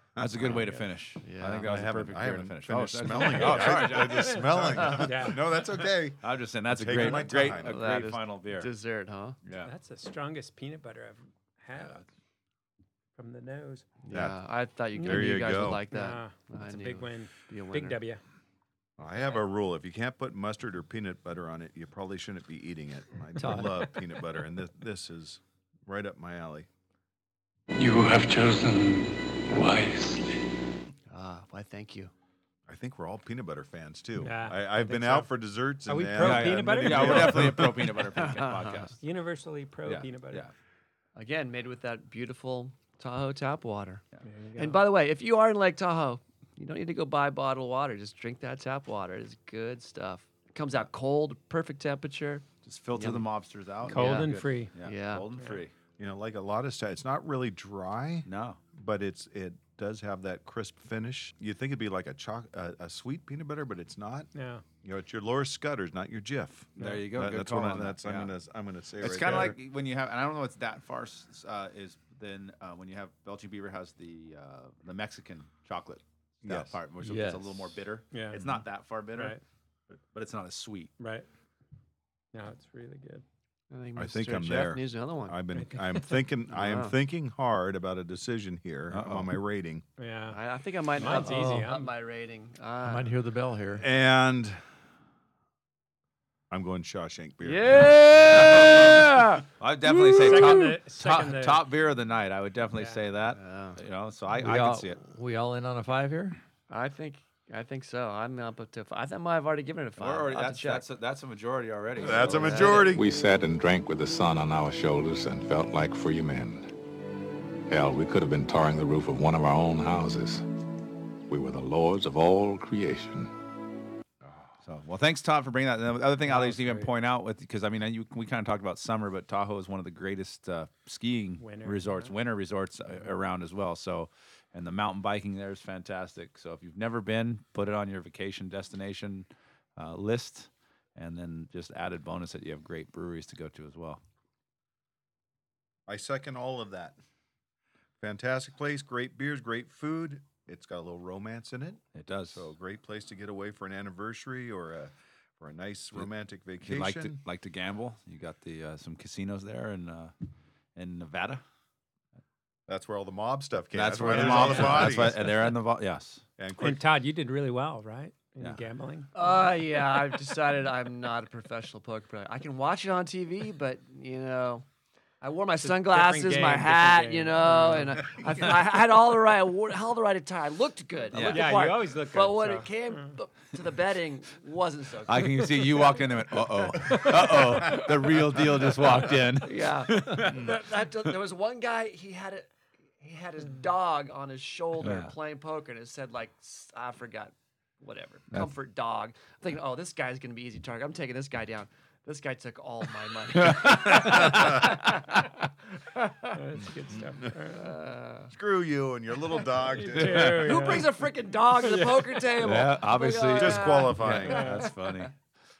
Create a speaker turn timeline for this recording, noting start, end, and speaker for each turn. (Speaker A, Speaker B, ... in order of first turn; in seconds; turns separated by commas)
Speaker A: 0.2-0.7, Speaker B: 0.2-5.0, Speaker C: 1.2-1.6, Speaker A: 1.6-7.8, Speaker D: 4.1-5.8, Speaker B: 6.2-8.7, Speaker C: 7.0-9.4, Speaker B: 9.4-9.7, Speaker D: 9.6-12.0, Speaker D: 13.2-13.9, Speaker C: 14.0-18.0, Speaker A: 14.1-14.4, Speaker D: 15.0-15.3, Speaker A: 15.0-15.8, Speaker D: 15.9-18.2, Speaker A: 19.0-26.7, Speaker E: 23.4-23.8, Speaker F: 27.7-30.4, Speaker C: 31.1-32.1, Speaker A: 32.7-37.8, Speaker D: 34.2-35.3, Speaker D: 35.9-37.6, Speaker B: 36.2-39.0, Speaker C: 38.2-38.8, Speaker D: 39.0-40.4, Speaker B: 39.8-40.5, Speaker C: 41.1-44.0, Speaker D: 44.3-44.8, Speaker C: 44.5-53.3, Speaker B: 52.6-55.7, Speaker D: 53.8-54.7, Speaker C: 53.9-55.3, Speaker A: 56.0-64.3, Speaker B: 58.2-58.6, Speaker D: 64.3-64.6, Speaker A: 64.8-69.5, Speaker D: 66.8-67.0, Speaker B: 66.8-68.3, Speaker B: 69.0-79.4, Speaker A: 76.4-76.7, Speaker E: 77.0-77.7, Speaker D: 78.1-78.5, Speaker D: 79.1-79.4, Speaker B: 80.1-80.9, Speaker D: 81.0-81.3, Speaker D: 82.3-83.2, Speaker C: 83.7-85.4, Speaker A: 84.0-89.8, Speaker D: 85.5-86.1, Speaker C: 86.5-86.9, Speaker B: 88.9-89.3, Speaker D: 90.0-90.4, Speaker C: 90.3-93.1, Speaker D: 91.0-91.9, Speaker E: 91.0-91.7, Speaker E: 92.8-93.8, Speaker A: 93.8-94.6, Speaker A: 96.5-98.8, Speaker C: 97.4-99.4, Speaker B: 98.4-99.0, Speaker B: 99.6-105.0, Speaker D: 99.9-101.6, Speaker C: 103.3-103.8, Speaker E: 104.3-106.4, Speaker C: 106.7-110.8, Speaker B: 110.0-112.9, Speaker A: 112.0-113.0, Speaker C: 112.2-112.9, Speaker G: 112.9-116.7, Speaker G: 117.7-120.4, Speaker G: 121.3-123.3, Speaker B: 124.6-144.0, Speaker D: 126.3-126.8, Speaker D: 131.4-132.1, Speaker A: 145.9-146.9, Speaker A: 148.0-157.2, Speaker B: 151.9-152.4, Speaker B: 156.6-160.1, Speaker B: 160.8-161.4, Speaker A: 162.7-165.3, Speaker B: 163.7-166.2, Speaker A: 166.4-166.8, Speaker D: 166.6-169.3, Speaker C: 169.1-174.6, Speaker C: 175.2-185.9, Speaker D: 175.6-178.5, Speaker B: 181.1-181.4, Speaker D: 181.1-183.1, Speaker B: 185.1-190.5, Speaker C: 189.4-192.5, Speaker C: 193.0-205.2, Speaker B: 194.8-195.1, Speaker B: 203.4-204.5, Speaker D: 206.3-207.7, Speaker C: 207.5-208.3, Speaker A: 208.3-210.4, Speaker D: 209.8-210.9, Speaker B: 209.9-210.8, Speaker C: 210.4-214.7, Speaker D: 211.6-212.1, Speaker B: 212.4-215.1, Speaker A: 213.3-214.5, Speaker D: 214.2-214.7